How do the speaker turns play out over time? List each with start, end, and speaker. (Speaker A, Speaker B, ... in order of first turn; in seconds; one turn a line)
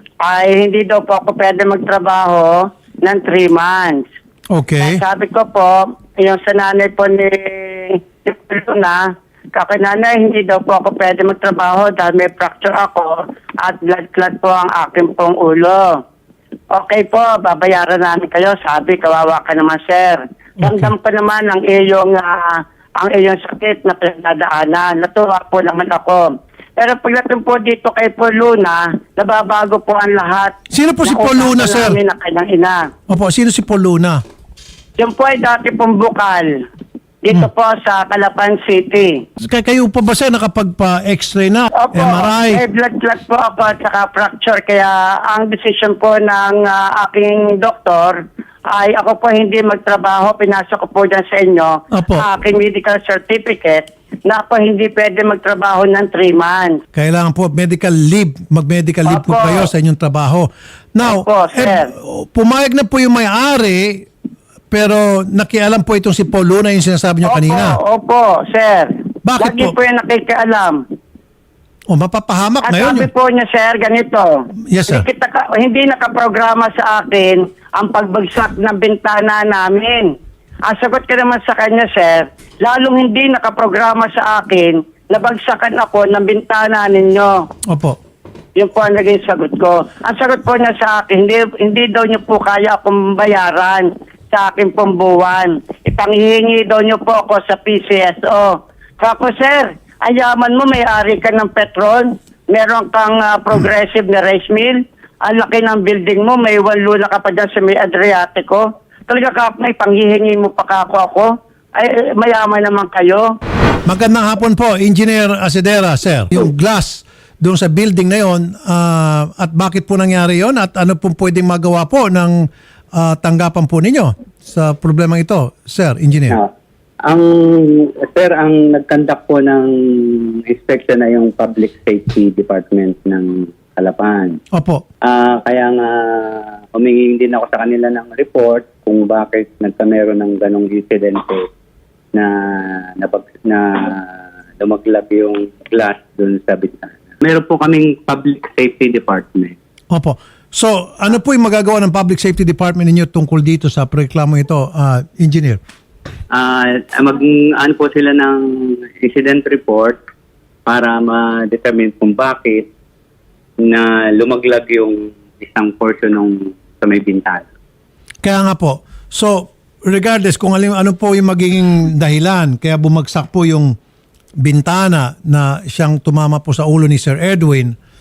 Speaker A: 0.2-4.1
Speaker B: 4.5-5.0
Speaker A: 4.8-16.0
Speaker A: 16.7-26.2
Speaker B: 20.6-20.9
Speaker A: 26.8-32.9
Speaker B: 30.7-32.0
Speaker B: 33.1-34.2
Speaker A: 35.0-36.5
Speaker A: 37.2-39.2
Speaker B: 39.4-42.6
Speaker A: 41.8-56.8
Speaker B: 51.9-52.3
Speaker B: 56.9-64.1
Speaker A: 59.1-59.7
Speaker A: 61.0-61.9
Speaker B: 64.7-67.8
Speaker A: 67.2-70.8
Speaker B: 69.2-69.7
Speaker B: 71.9-73.1
Speaker A: 72.6-74.3
Speaker B: 74.7-75.0
Speaker A: 74.9-80.1
Speaker A: 80.7-87.3
Speaker B: 87.7-88.0
Speaker A: 88.6-113.3
Speaker B: 113.9-122.4
Speaker B: 123.0-126.4
Speaker C: 127.0-134.4
Speaker B: 134.6-134.8
Speaker C: 135.0-141.5
Speaker C: 142.1-149.6
Speaker B: 149.9-155.6
Speaker C: 156.3-160.0
Speaker C: 160.7-162.7
Speaker C: 163.6-167.4
Speaker B: 168.2-173.8
Speaker B: 174.4-177.8